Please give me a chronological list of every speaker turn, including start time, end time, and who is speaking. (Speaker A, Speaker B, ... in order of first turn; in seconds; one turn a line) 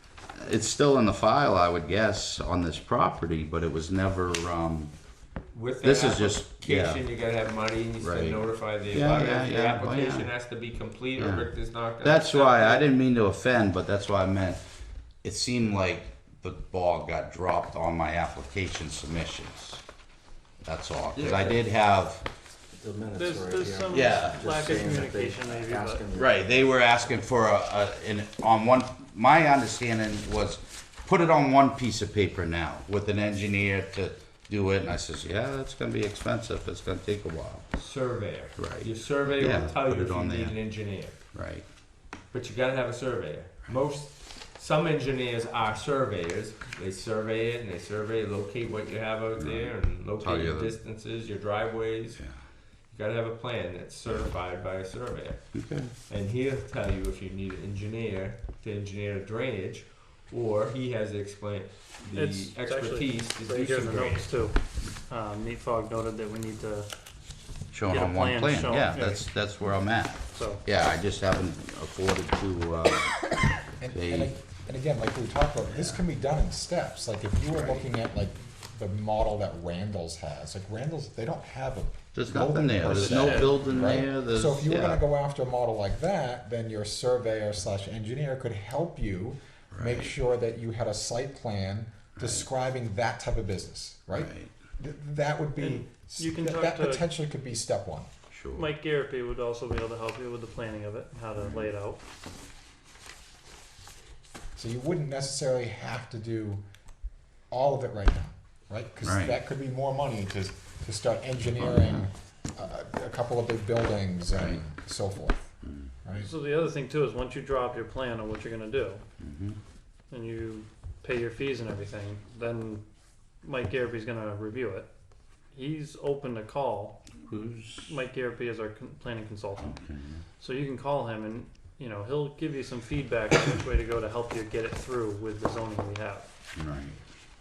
Speaker A: 0.3-4.9
Speaker B: 5.5-12.9
Speaker A: 5.8-7.0
Speaker A: 8.0-10.3
Speaker A: 11.2-14.6
Speaker A: 15.2-19.8
Speaker A: 20.6-22.2
Speaker B: 21.2-21.6
Speaker C: 22.7-26.7
Speaker D: 23.2-26.0
Speaker A: 23.9-24.5
Speaker A: 26.1-37.7
Speaker B: 37.8-41.2
Speaker A: 38.6-40.6
Speaker A: 41.3-41.7
Speaker B: 42.3-52.2
Speaker A: 49.4-50.8
Speaker B: 52.9-55.5
Speaker A: 55.5-55.9
Speaker B: 56.1-64.3
Speaker D: 62.1-66.9
Speaker A: 67.7-73.3
Speaker D: 67.9-69.3
Speaker D: 70.3-70.6
Speaker E: 73.8-98.1
Speaker A: 73.9-74.3
Speaker A: 82.2-85.0
Speaker D: 82.8-84.0
Speaker A: 89.7-90.1
Speaker A: 92.2-92.4
Speaker A: 94.1-94.5
Speaker D: 95.6-97.0
Speaker A: 98.3-98.7
Speaker D: 98.5-102.0
Speaker E: 104.5-106.6
Speaker E: 107.5-115.5
Speaker A: 109.0-109.4
Speaker A: 111.5-112.0
Speaker A: 114.3-114.6
Speaker A: 115.6-115.9
Speaker E: 116.0-116.3
Speaker D: 116.2-119.0
Speaker A: 119.2-119.6
Speaker D: 120.1-122.8
Speaker D: 123.4-124.9
Speaker D: 125.5-127.0
Speaker A: 127.3-127.9
Speaker D: 127.8-129.8
Speaker A: 129.6-130.2
Speaker D: 130.4-136.3
Speaker A: 136.6-136.9